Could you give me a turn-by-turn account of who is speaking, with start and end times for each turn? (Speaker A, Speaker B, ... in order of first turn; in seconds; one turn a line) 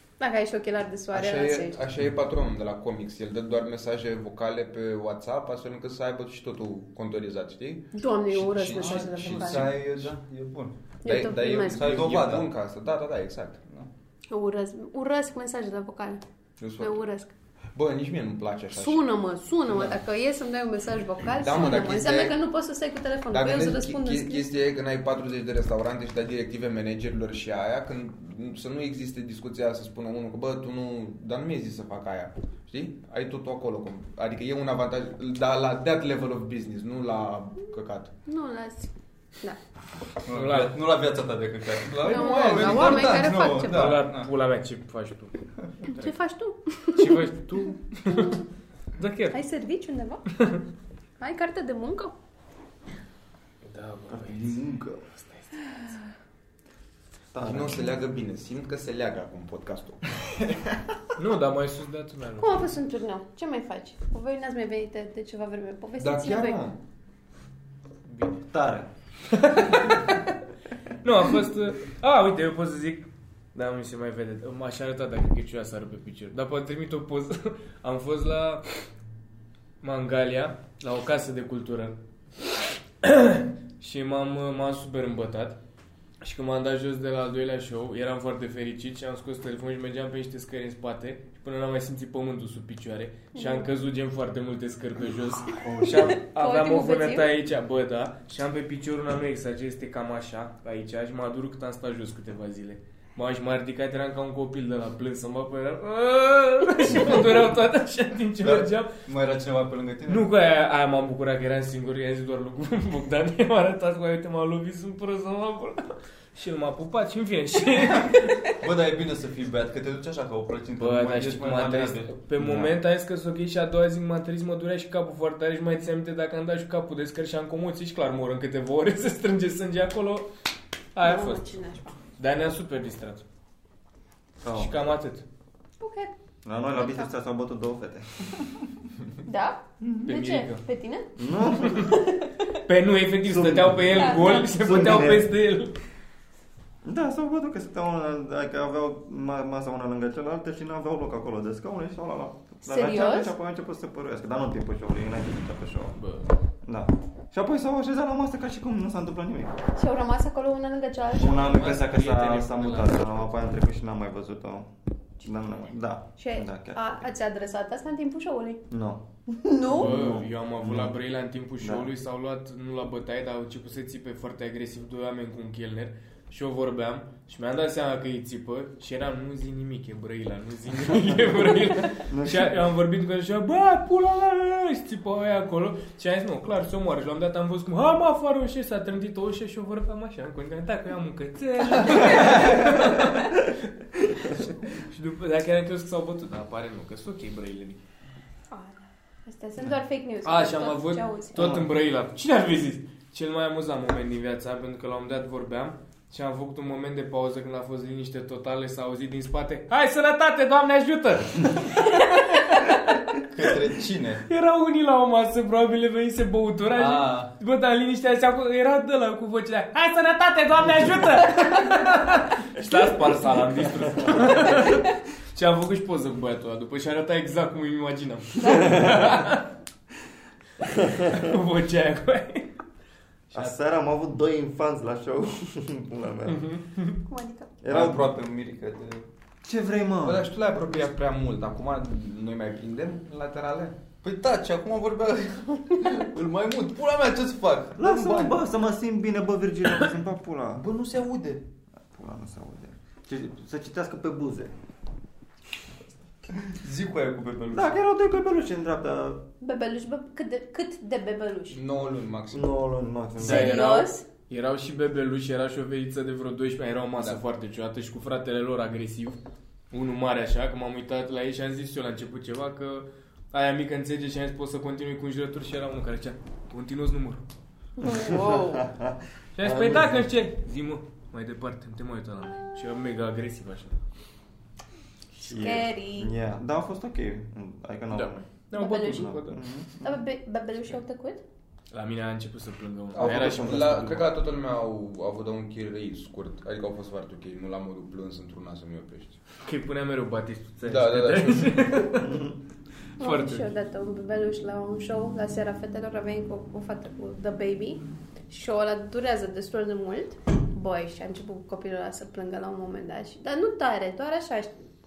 Speaker A: 0.2-1.8
Speaker B: 1.1-10.1
Speaker A: 7.9-9.8
Speaker C: 8.7-10.7
Speaker A: 11.0-12.0
Speaker B: 11.0-13.6
Speaker C: 11.6-12.5
Speaker A: 14.3-16.2
Speaker B: 16.6-17.0
Speaker A: 16.8-17.3
Speaker B: 17.7-19.0
Speaker A: 18.7-24.5
Speaker B: 19.7-20.0
Speaker B: 21.3-22.4
Speaker B: 23.3-38.1
Speaker A: 38.2-39.6
Speaker C: 40.2-44.3
Speaker D: 40.3-40.8
Speaker A: 42.0-44.1
Speaker B: 42.0-43.3
Speaker D: 43.6-45.3
Speaker A: 45.9-47.2
Speaker D: 46.9-48.4
Speaker D: 49.0-49.4
Speaker A: 49.3-50.2
Speaker A: 51.2-52.1
Speaker D: 53.6-54.6
Speaker E: 54.1-55.1
Speaker D: 55.1-55.7
Speaker E: 57.3-58.0
Speaker B: 57.4-60.8
Speaker D: 61.2-62.6
Speaker A: 62.4-66.6
Speaker B: 66.0-66.8
Speaker D: 68.0-68.4
Speaker E: 68.5-68.9
Speaker D: 69.3-70.2
Speaker D: 71.0-78.6
Speaker D: 79.8-82.0
Speaker D: 83.0-85.6
Speaker D: 86.2-108.9
Speaker A: 93.3-93.7
Speaker A: 95.9-97.3
Speaker C: 107.0-107.2
Speaker C: 108.4-110.3
Speaker D: 110.1-118.3
Speaker C: 118.0-122.1
Speaker D: 120.8-130.3
Speaker E: 122.4-122.7
Speaker D: 130.9-131.4
Speaker A: 131.0-131.9
Speaker D: 132.2-133.2
Speaker E: 134.4-134.8
Speaker D: 134.5-135.2
Speaker A: 135.8-136.1
Speaker E: 136.4-138.6
Speaker A: 136.8-137.1
Speaker A: 139.2-142.6
Speaker D: 140.0-140.6
Speaker E: 141.2-141.9
Speaker D: 142.7-145.7
Speaker E: 143.2-145.3
Speaker A: 143.9-144.8
Speaker E: 146.8-156.0
Speaker A: 152.6-153.3
Speaker D: 155.9-156.3
Speaker E: 156.6-159.6
Speaker A: 159.8-161.5
Speaker E: 161.2-164.7
Speaker D: 161.4-163.3
Speaker E: 165.2-167.0
Speaker A: 166.2-168.6
Speaker E: 168.7-170.9
Speaker A: 169.5-169.9
Speaker D: 169.8-193.4
Speaker E: 171.6-171.9
Speaker E: 182.1-182.6
Speaker A: 191.7-192.7
Speaker D: 194.2-197.8
Speaker A: 198.5-201.3
Speaker D: 200.2-212.8
Speaker E: 201.4-201.6
Speaker C: 213.2-214.2
Speaker D: 214.3-229.5
Speaker C: 216.7-217.3
Speaker A: 228.4-228.9
Speaker E: 230.8-231.2
Speaker D: 230.8-232.5
Speaker E: 233.3-236.4
Speaker D: 236.3-237.0
Speaker A: 237.1-237.5
Speaker E: 237.6-238.1
Speaker C: 237.7-239.1
Speaker E: 239.4-240.3
Speaker B: 240.0-243.7
Speaker C: 244.0-248.4
Speaker E: 247.8-250.6
Speaker C: 250.5-251.4
Speaker E: 251.9-254.5
Speaker C: 256.6-257.8
Speaker E: 257.5-259.2
Speaker A: 259.4-261.6
Speaker B: 261.5-262.5
Speaker E: 262.3-263.6
Speaker A: 263.2-264.0
Speaker D: 263.2-269.2
Speaker B: 267.0-267.2
Speaker D: 269.7-277.2
Speaker A: 277.8-278.7
Speaker E: 277.8-280.1
Speaker D: 279.4-283.8
Speaker E: 285.2-288.2
Speaker A: 285.2-286.1
Speaker D: 287.9-289.4
Speaker A: 288.5-289.1
Speaker E: 288.9-289.9
Speaker A: 289.8-291.2
Speaker D: 291.7-294.0
Speaker B: 292.9-299.2
Speaker E: 292.9-293.9
Speaker D: 299.4-302.2
Speaker B: 300.6-301.7
Speaker E: 301.9-302.4
Speaker D: 303.0-303.5
Speaker A: 303.0-314.5